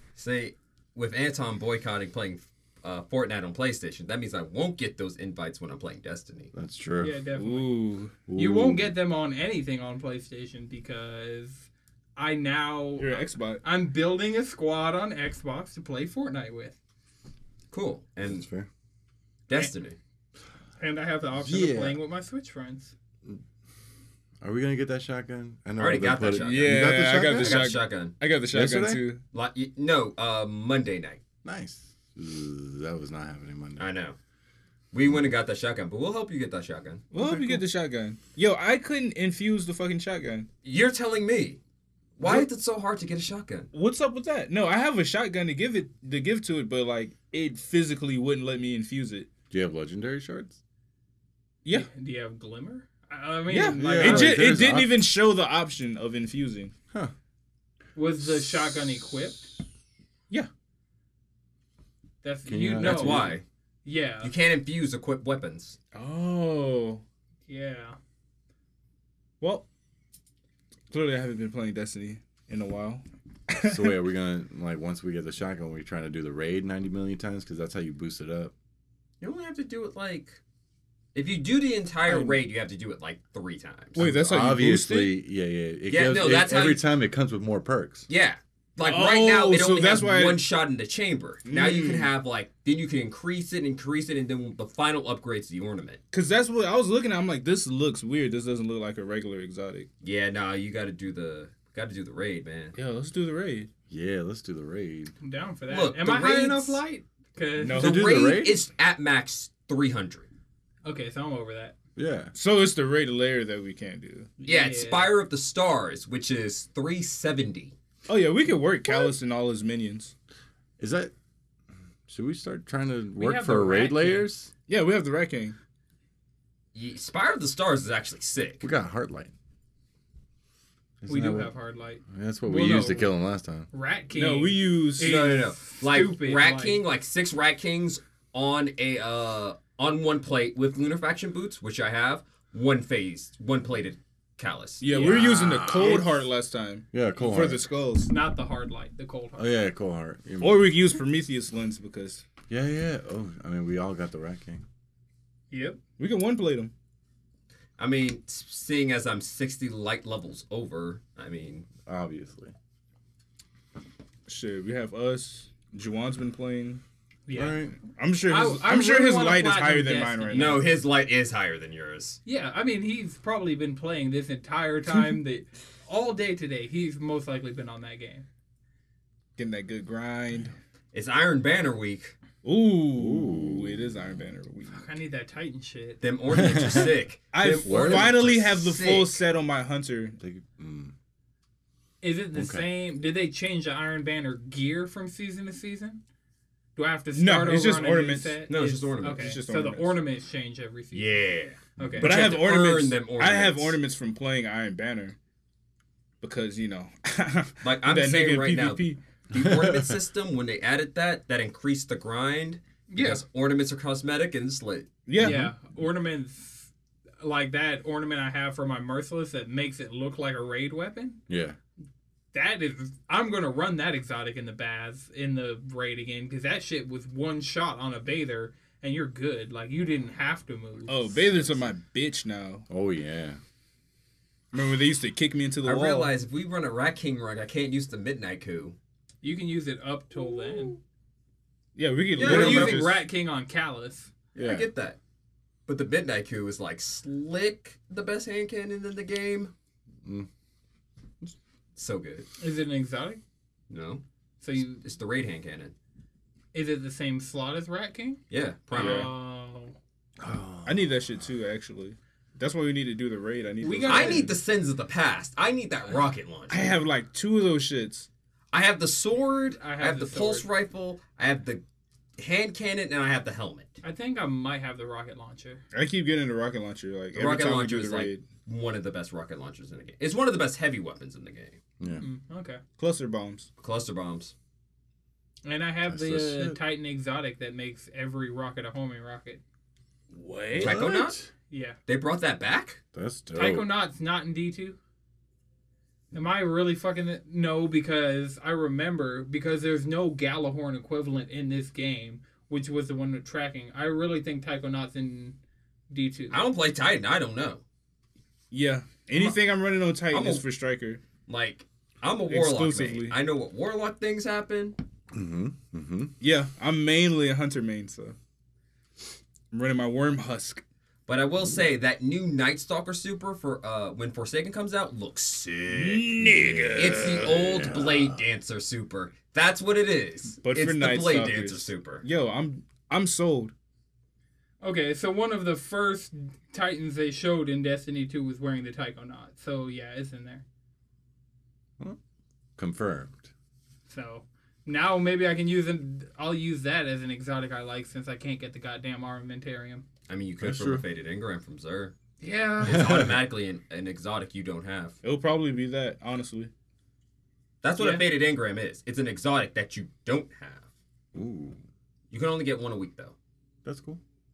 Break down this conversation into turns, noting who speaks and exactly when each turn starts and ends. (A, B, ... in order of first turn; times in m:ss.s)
0:00.2-0:06.5 A
0:06.5-0:07.2 B
0:07.0-0:16.8 C
0:07.3-0:08.1 D
0:08.3-0:08.9 B
0:13.0-0:13.6 D
0:17.7-0:18.4 A
0:18.2-0:18.7 B
0:19.5-0:20.0 A
0:20.8-0:22.9 C
0:21.4-0:22.0 B
0:24.4-0:27.8 B
0:25.8-0:28.2 A
0:26.4-0:29.2 D
0:28.5-0:29.1 B
0:29.3-0:31.2 A
0:31.4-0:33.9 B
0:33.8-0:34.2 A
0:34.9-0:37.0 A
0:37.1-0:40.5 D
0:37.2-0:37.6 B
0:40.6-0:41.6 A
0:42.2-0:43.7 A
0:42.2-0:42.5 D
0:43.7-0:49.3 D
0:49.5-0:50.6 B
0:51.7-0:54.6 C
0:53.5-0:56.7 D
0:53.7-0:55.1 B
0:57.9-0:59.5 C
1:02.2-1:03.3 C
1:02.4-1:03.4 B
1:02.8-1:03.4 A
1:03.8-1:04.3 C
1:04.2-1:05.8 A
1:05.9-1:07.0 D
1:07.5-1:08.0 C
1:09.4-1:09.7 D
1:10.9-1:14.0 D
1:13.6-1:18.5 B
1:19.2-1:20.4 A
1:21.1-1:24.1 A
1:22.1-1:22.4 D
1:23.9-1:25.1 D
1:24.0-1:28.1 B
1:25.9-1:26.8 A
1:28.1-1:36.0 A
1:28.8-1:30.4 D
1:31.5-1:32.1 D
1:36.1-1:39.9 D
1:40.0-1:42.8 A
1:42.7-1:43.7 D
1:43.9-1:45.1 B
1:45.2-1:48.0 C
1:45.7-1:46.8 A
1:47.6-1:48.1 D
1:47.7-1:50.3 A
1:47.8-1:48.6 B
1:50.8-1:51.7 C
1:52.0-1:52.3 B
1:52.3-1:54.3 D
1:54.4-1:55.1 C
1:54.4-1:57.7 A
1:58.1-2:00.1 D
2:00.8-2:01.1 B
2:02.1-2:04.5 B
2:03.2-2:04.3 C
2:04.7-2:05.6 D
2:06.7-2:08.6 A
2:08.6-2:09.3 B
2:11.0-2:11.5 B
2:11.1-2:13.1 C
2:12.1-2:13.7 B
2:13.7-2:16.8 C
2:14.1-2:15.1 D
2:15.0-2:24.8 A
2:24.8-2:28.1 D
2:24.9-2:26.0 C
2:25.0-2:26.0 B
2:26.9-2:27.6 B
2:28.0-2:29.5 C
2:29.4-2:30.7 B
2:30.4-2:32.2 D
2:32.5-2:34.6 B
2:35.5-2:35.8 C
2:36.0-2:36.7 D
2:37.8-2:41.7 A
2:41.8-2:42.5 B
2:44.3-2:46.8 D
2:47.3-2:47.6 C
2:47.3-2:47.8 B
2:48.0-2:50.6 D
2:48.2-2:50.6 C
2:50.3-2:52.2 A
2:52.2-2:58.2 C
2:59.4-3:00.5 D
3:00.9-3:02.1 A
3:02.4-3:04.8 D
3:02.9-3:04.2 B
3:04.7-3:06.0 C
3:06.0-3:09.2 A
3:06.3-3:06.9 B
3:07.3-3:10.2 D
3:07.6-3:08.3 B
3:10.2-3:10.9 B
3:12.0-3:16.0 C
3:12.3-3:12.6 B
3:16.8-3:21.2 C
3:17.1-3:18.4 D
3:18.5-3:19.4 A
3:19.1-3:20.0 D
3:20.9-3:23.8 A
3:21.8-3:22.2 C
3:21.8-3:22.0 B
3:22.0-3:25.2 D
3:26.2-3:29.0 D
3:27.6-3:34.9 A
3:29.3-3:30.0 B
3:32.9-3:33.2 C
3:35.1-3:35.5 D
3:35.2-3:41.2 C
3:41.3-3:41.6 B
3:42.3-3:51.5 C
3:50.9-3:52.6 D
3:52.7-3:53.4 B
3:54.5-3:56.1 D
3:55.6-3:58.8 A
3:59.2-4:00.8 C
4:01.8-4:03.0 D
4:02.1-4:02.9 A
4:02.2-4:04.1 C
4:04.3-4:05.0 A
4:04.4-4:04.7 B
4:05.7-4:09.5 A
4:11.8-4:12.3 A
4:12.4-4:13.2 C
4:13.7-4:14.0 A
4:14.4-4:14.8 C
4:14.6-4:15.7 A
4:16.5-4:18.2 C
4:18.3-4:19.1 A
4:18.7-4:19.8 C
4:18.7-4:19.1 D
4:20.2-4:21.3 B
4:20.6-4:24.3 D
4:23.6-4:24.3 C
4:23.8-4:26.7 A
4:26.5-4:28.1 D
4:28.5-4:31.6 A
4:29.6-4:30.5 C
4:32.2-4:33.8 A
4:33.8-4:35.6 C
4:35.7-4:38.2 D
4:37.1-4:41.6 A
4:42.0-4:42.6 C
4:42.8-4:43.5 D
4:43.6-4:44.3 A
4:45.4-4:49.4 C
4:45.8-4:46.6 B
4:50.1-4:50.8 D
4:50.5-4:51.3 B
4:50.5-4:51.2 A
4:51.5-4:51.8 C
4:51.9-4:52.8 A
4:52.9-4:53.7 B
4:53.3-4:54.8 C
4:56.1-5:05.4 C
5:05.9-5:06.4 C
5:06.3-5:07.6 A
5:08.5-5:11.0 D
5:10.1-5:10.4 A
5:11.3-5:14.8 A
5:12.3-5:13.2 D
5:15.1-5:16.1 B
5:16.2-5:18.2 D
5:19.5-5:20.6 D
5:21.1-5:26.1 A
5:25.7-5:27.7 D
5:26.2-5:28.2 B
5:26.8-5:32.0 A
5:30.4-5:33.5 D
5:34.6-5:40.4 C
5:42.6-5:43.3 B
5:43.9-5:49.8 C
5:50.1-5:51.9 A
5:50.4-5:50.8 B
5:52.2-5:52.9 C
5:52.6-5:55.0 A
5:52.6-5:53.2 B
5:55.0-5:56.5 D
5:57.6-6:00.7 A
5:57.8-5:58.1 C
6:01.1-6:01.6 B
6:02.1-6:03.1 A
6:03.6-6:04.0 B